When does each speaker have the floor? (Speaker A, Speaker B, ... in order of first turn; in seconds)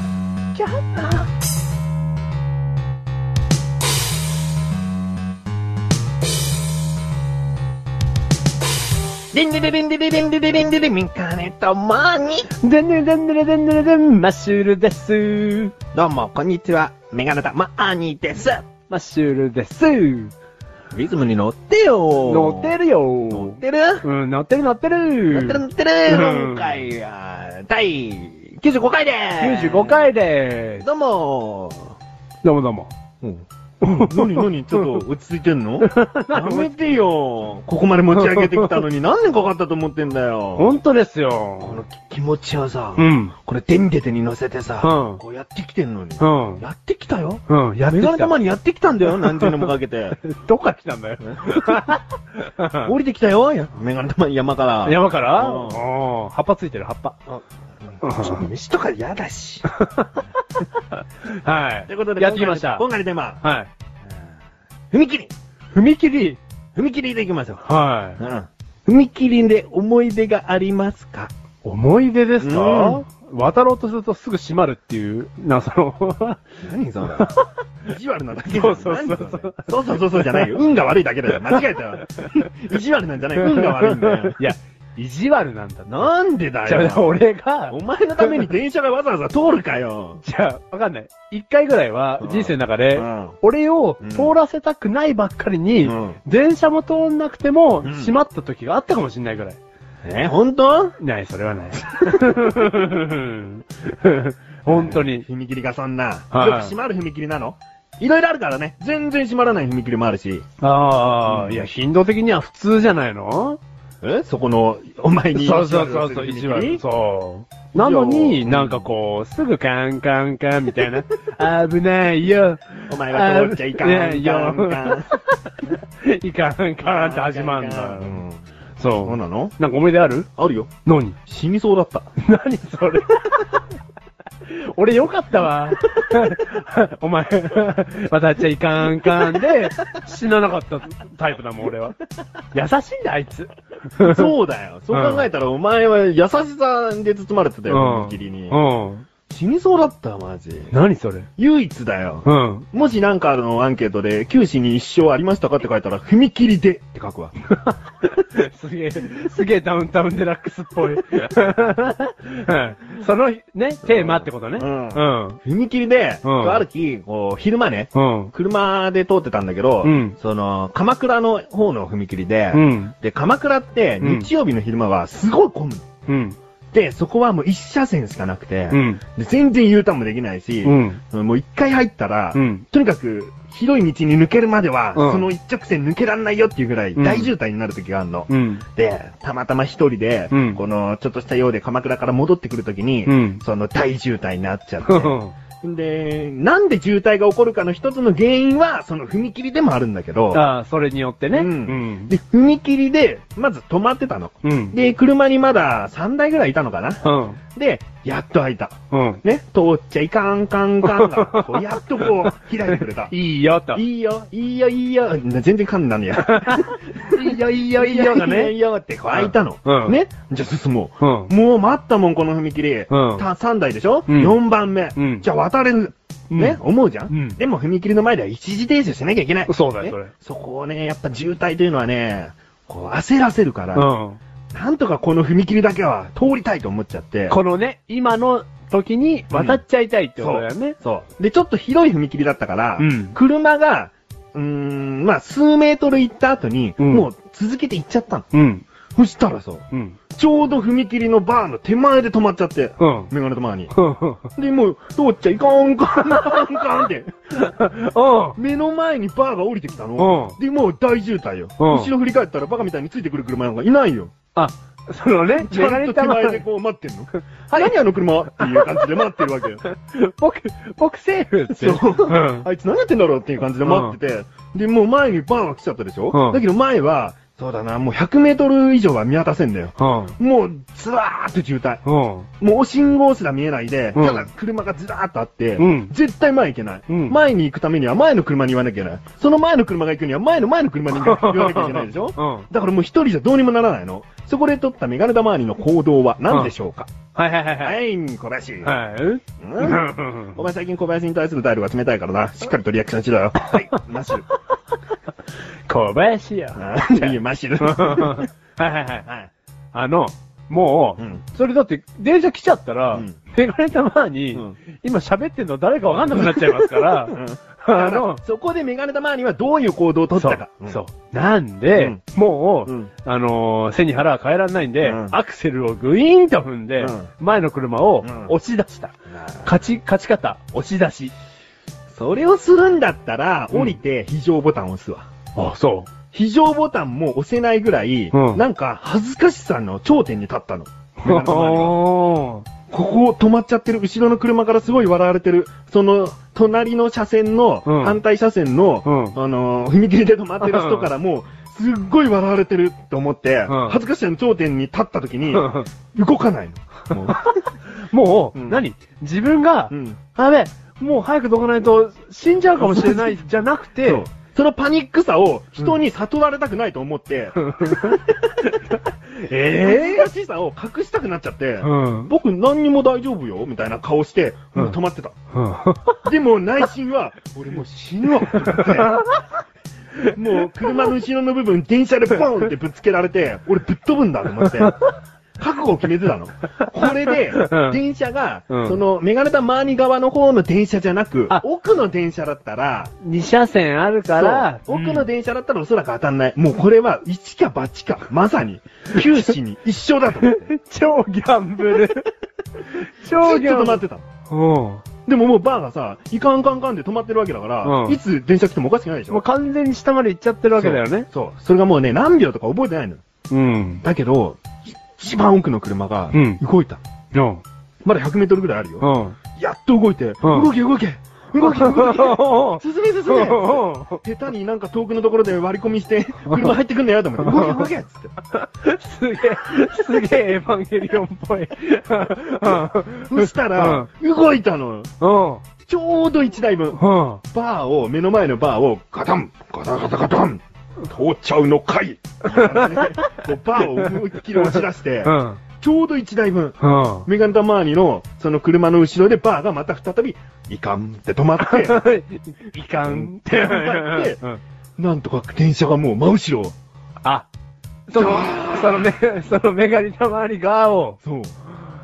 Speaker A: 0.6-1.2, 12.6-15.7, 18.9-20.3, 22.2-26.8, 29.4-30.9, 32.4-32.9, 33.8-35.0, 35.8-36.7, 38.1-38.8, 40.6-41.8, 43.0-43.3, 44.8-45.2, 46.2-46.6, 47.5-48.4, 49.1-52.9, 54.9-57.2, 58.0-58.4, 59.7-62.9, 63.4-63.7, 65.7-66.4, 67.7-68.2, 71.6-76.5, 77.2-77.4, 78.5-80.5, 81.5-82.3, 83.4-86.1, 86.7-88.5, 90.2-99.6, 101.0-105.2, 106.3-106.7, 110.6-113.6, 115.3-128.2, 128.8-130.3, 130.8-131.2, 132.2-133.6, 134.5-142.0, 142.5-144.3, 144.9-145.3, 147.7-149.1, 150.7-151.3, 152.2-152.7, 157.5-165.4, 166.2-166.6, 167.9-168.3, 169.8-170.2, 172.5-172.9, 174.0-174.3, 176.1-176.4, 178.7-179.0, 180.7-181.0, 182.3-182.7, 185.0-185.3, 187.0-187.3, 188.3-188.6, 190.3-190.6, 193.1-193.4, 194.9-195.3, 200.3-202.1, 204.4-204.8, 207.0-207.4, 208.9-209.2, 210.8-213.8, 216.2-218.5, 219.1-220.0, 221.0-221.3, 222.9-223.3, 224.1-224.3, 225.0-225.2, 226.3-227.4, 229.5-230.1, 233.8-234.2, 237.3-240.8, 242.8-243.2, 246.8-247.1, 248.3-248.7, 249.7-250.0, 252.8-253.1, 253.7-254.3, 256.1-256.4, 257.4-258.4, 260.0-260.4, 261.6-261.9, 264.4-266.4, 267.5-267.8, 268.4-272.5, 273.6-274.0, 276.1-276.4, 279.8-280.1, 281.9-282.3, 283.9-284.3, 285.6-285.9, 286.9-287.2, 290.9-292.5, 297.1-297.8, 298.6-300.4, 305.7-309.1, 309.7-318.2, 320.1-328.9, 329.4-331.1, 335.4-335.9, 338.1-338.4, 341.1-342.5, 347.7-348.0, 348.9-349.1, 350.4-350.9, 353.5-353.8, 355.3-355.7, 356.9-364.1, 367.4-368.0, 368.7-370.1, 371.6-372.1, 375.3-376.0, 378.3-379.2, 387.2-387.8, 388.5-388.8, 393.0-395.1, 399.0-399.3, 400.2-404.8, 407.6-408.0, 409.1-411.1, 413.3-413.8, 416.1-416.4, 417.1-417.4, 418.8-419.2, 420.2-420.5, 421.4-424.0, 426.3-426.6, 427.2-427.7, 428.3-433.9, 435.0-435.4, 436.8-437.2, 442.2-445.4, 446.6-447.1, 451.4-454.4, 457.0-457.3, 457.9-461.0
Speaker B: 9.3-12.5, 15.9-18.7, 20.9-24.1, 25.3-30.1, 30.8-32.0, 33.2-40.7, 41.6-50.2, 51.3-52.0, 52.8-55.9, 57.3-59.7, 61.9-63.4, 64.9-65.3, 66.8-67.7, 68.2-71.3, 72.4-73.0, 76.6-77.3, 77.8-84.4, 85.9-90.2, 92.2-93.4, 94.0-94.4, 95.8-96.2, 97.8-98.2, 100.0-101.0, 104.7-110.5, 111.3-111.7, 114.0-116.8, 117.7-118.9, 122.9-125.1, 126.8-128.4, 129.0-129.6, 130.4-130.7, 131.3-132.1, 144.0-148.6, 149.3-150.7, 151.4-157.3, 163.8-175.9, 176.7-200.4, 201.3-213.1, 213.7-233.9, 234.5-237.4, 239.3-239.6, 240.2-248.3, 248.9-253.7, 254.4-257.1, 258.4-264.1, 265.3-269.6, 271.5-281.8, 282.4-296.9, 297.6-298.8, 299.4-304.3, 306.6-308.3, 311.0-311.2, 316.1-320.8, 322.7-322.9, 324.8-325.2, 326.8-327.1, 328.0-328.3, 329.1-329.5, 331.9-335.1, 336.1-341.8, 342.7-357.3, 358.4-358.7, 359.7-360.0, 362.6-363.2, 363.8-368.2, 369.4-375.1, 376.1-379.0, 380.1-384.8, 385.4-392.9, 394.1-400.5, 403.1-404.0, 405.1-409.2, 410.5-413.0, 413.8-416.8, 417.8-428.1, 432.4-434.9, 435.7-451.9, 452.8-454.2, 454.8-456.6, 457.9-458.9, 461.0-461.4